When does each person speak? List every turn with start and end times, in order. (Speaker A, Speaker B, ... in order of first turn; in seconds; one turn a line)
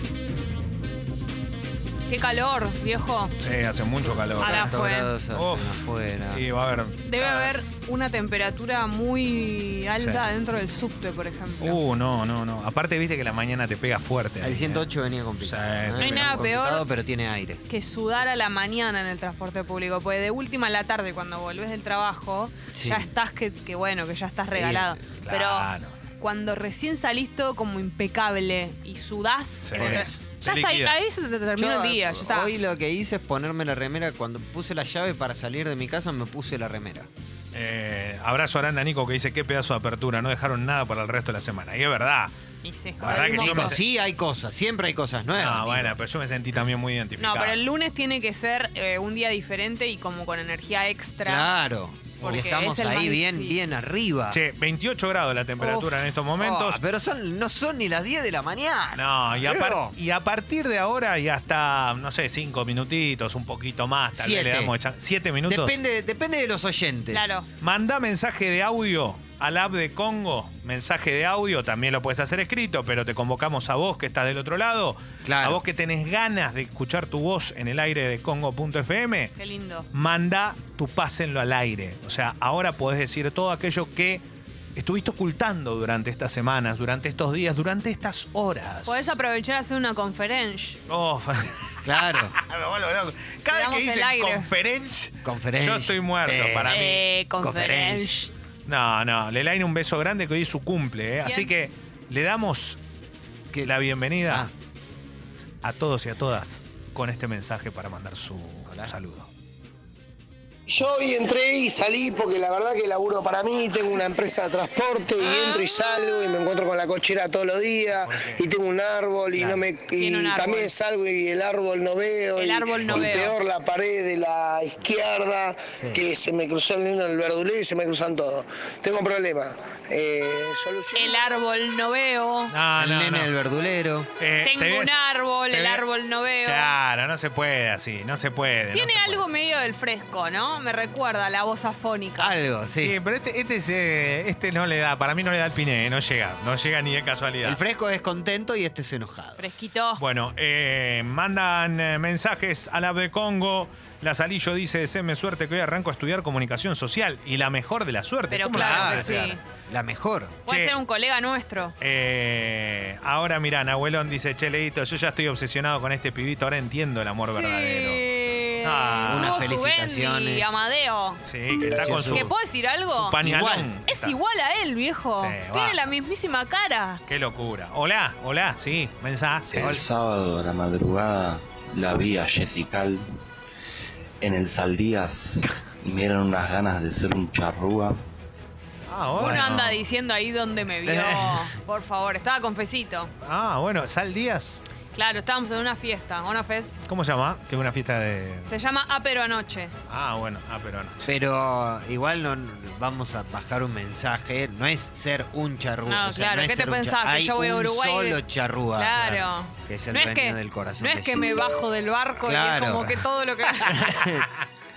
Speaker A: 2.1-3.3
Speaker B: 3.4-4.8
Speaker C: 4.2-6.4
Speaker A: 4.4-5.1
Speaker B: 5.3-5.8
Speaker B: 6.3-7.5
Speaker A: 7.1-11.8
Speaker B: 11.6-14.9
Speaker C: 14.4-17.6
Speaker B: 15.4-16.5
Speaker A: 16.0-16.8
Speaker A: 17.7-32.5
Speaker C: 22.7-23.1
Speaker C: 24.5-25.0
Speaker B: 25.2-25.9
Speaker B: 29.6-30.9
Speaker C: 29.8-30.1
Speaker C: 31.6-37.1
Speaker B: 37.5-42.3
Speaker A: 42.6-43.8
Speaker B: 43.0-43.8
Speaker C: 43.0-46.0
Speaker B: 45.4-47.6
Speaker A: 47.2-51.5
Speaker C: 51.2-54.4
Speaker B: 52.2-52.5
Speaker A: 52.2-53.6
Speaker B: 54.3-56.8
Speaker C: 55.7-60.0
Speaker B: 59.0-65.7
Speaker C: 64.2-64.7
Speaker C: 65.5-67.3
Speaker A: 67.1-67.5
Speaker B: 67.6-79.3
Speaker C: 75.2-75.6
Speaker A: 79.4-79.9
Speaker B: 79.9-84.2
Speaker B: 84.8-89.2
Speaker A: 88.9-90.8
Speaker B: 90.9-97.0
Speaker C: 91.8-92.4
Speaker A: 93.5-94.5
Speaker C: 95.2-96.8
Speaker A: 96.7-98.3
Speaker C: 97.4-98.1
Speaker B: 98.7-102.8
Speaker A: 101.2-101.5
Speaker B: 103.6-104.5
Speaker C: 104.2-104.5
Speaker B: 105.6-109.3
Speaker D: 110.7-131.3
Speaker A: 115.2-115.7
Speaker B: 118.0-118.4
Speaker C: 119.4-119.6
Speaker A: 119.9-120.7
Speaker A: 122.4-123.3
Speaker C: 125.8-126.0
Speaker A: 130.9-132.5
Speaker B: 132.5-133.3
Speaker C: 132.8-134.1
Speaker B: 134.2-135.0
Speaker A: 134.4-136.7
Speaker B: 136.4-139.2
Speaker A: 138.7-142.3
Speaker C: 142.2-142.9
Speaker B: 142.8-147.6
Speaker C: 147.4-149.4
Speaker A: 149.4-150.0
Speaker B: 150.0-159.4
Speaker A: 158.3-159.4
Speaker C: 158.5-160.4
Speaker A: 160.5-161.7
Speaker B: 160.5-160.7
Speaker B: 161.8-168.0
Speaker A: 167.2-171.2
Speaker B: 168.6-169.5
Speaker C: 169.1-170.5
Speaker B: 171.2-172.3
Speaker C: 171.7-172.3
Speaker A: 172.1-173.2
Speaker B: 172.9-174.2
Speaker C: 173.2-173.7
Speaker A: 173.9-177.0
Speaker B: 175.2-175.8
Speaker B: 177.1-179.8
Speaker E: 179.5-183.1
Speaker E: 184.2-188.0
Speaker B: 188.9-189.8
Speaker C: 189.2-189.6
Speaker A: 189.2-193.1
Speaker C: 190.8-191.6
Speaker B: 193.2-194.6
Speaker A: 194.9-196.8
Speaker B: 196.9-198.5
Speaker A: 198.5-199.7
Speaker B: 199.9-201.1
Speaker C: 201.1-209.1
Speaker A: 205.9-208.2
Speaker A: 208.8-214.0
Speaker C: 209.7-211.5
Speaker C: 212.2-213.0
Speaker C: 213.6-214.3
Speaker B: 214.1-214.4